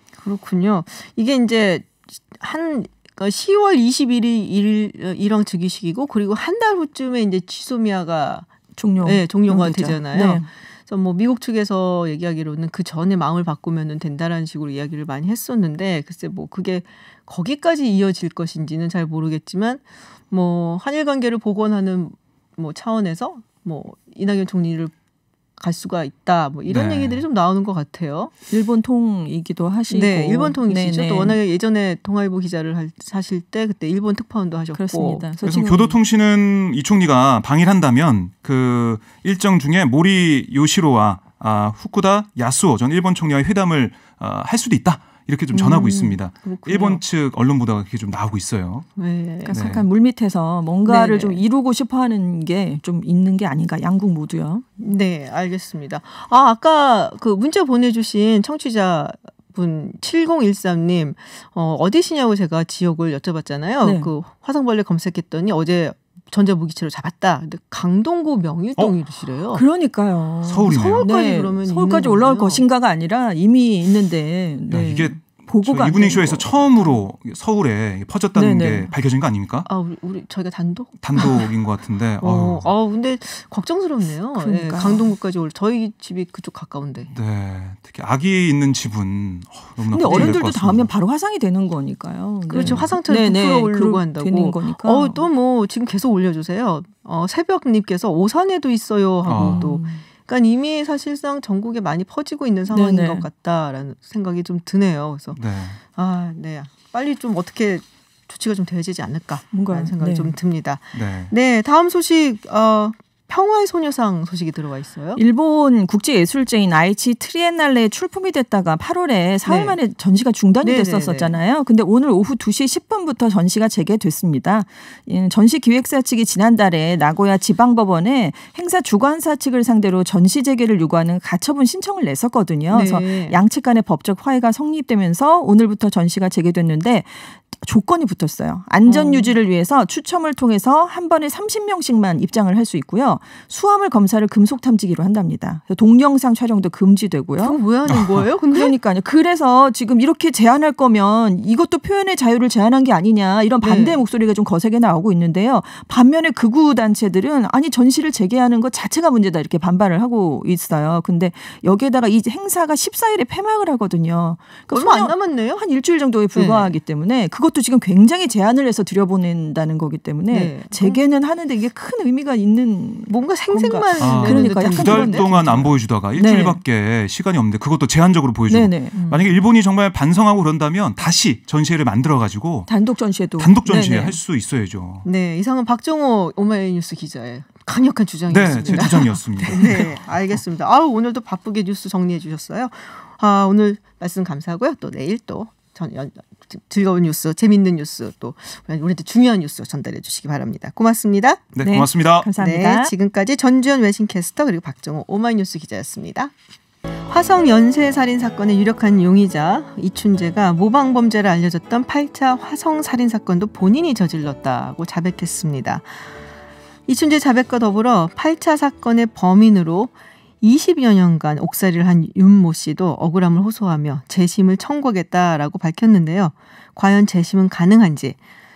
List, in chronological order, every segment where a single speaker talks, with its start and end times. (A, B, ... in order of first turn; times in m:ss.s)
0:00.2-0:08.5 A
0:08.8-0:10.4 B
0:09.0-0:24.9 A
0:25.6-0:28.3 A
0:26.6-0:27.2 C
0:28.5-0:31.4 B
0:29.9-0:35.3 A
0:34.7-0:36.0 B
0:35.4-0:48.9 C
0:45.5-0:47.0 A
0:49.0-0:49.6 A
0:49.4-0:54.6 B
0:49.5-0:49.9 C
0:50.8-0:51.4 A
0:54.8-1:09.6 A
1:03.8-1:04.1 B
1:09.5-1:16.6 B
1:10.4-1:11.1 C
1:10.6-1:12.6 A
1:14.7-1:19.7 C
1:18.4-1:18.9 B
1:19.6-1:21.5 A
1:21.0-1:22.7 C
1:22.2-1:27.1 A
1:24.4-1:25.1 B
1:27.1-1:30.9 C
1:29.9-1:35.3 B
1:30.0-1:30.4 A
1:32.5-1:45.4 A
1:32.6-1:33.0 C
1:39.2-1:39.8 C
1:39.3-1:40.0 B
1:42.7-1:43.3 B
1:45.3-1:45.8 C
1:45.9-1:55.2 A
1:49.5-1:50.4 B
1:50.9-1:51.3 C
1:55.2-2:27.6 B
1:59.4-1:59.8 A
2:00.6-2:01.4 A
2:12.7-2:13.4 A
2:18.8-2:19.4 A
2:27.4-2:28.8 A
2:27.9-2:28.2 C
2:28.5-2:55.3 B
2:33.6-2:34.0 A
2:44.7-2:45.6 A
2:46.3-2:46.8 A
2:50.3-2:51.0 A
2:53.1-2:55.7 A
2:54.0-3:02.7 C
2:56.1-2:56.6 B
2:58.5-2:59.0 B
2:58.9-2:59.4 A
3:02.7-3:04.1 B
3:03.4-3:05.1 C
3:03.7-3:04.1 A
3:05.0-3:21.5 A
3:08.3-3:10.1 C
3:08.6-3:09.9 B
3:21.6-3:22.3 C
3:21.6-3:22.9 B
3:22.4-3:26.3 A
3:27.1-3:36.1 A
3:36.9-3:48.2 A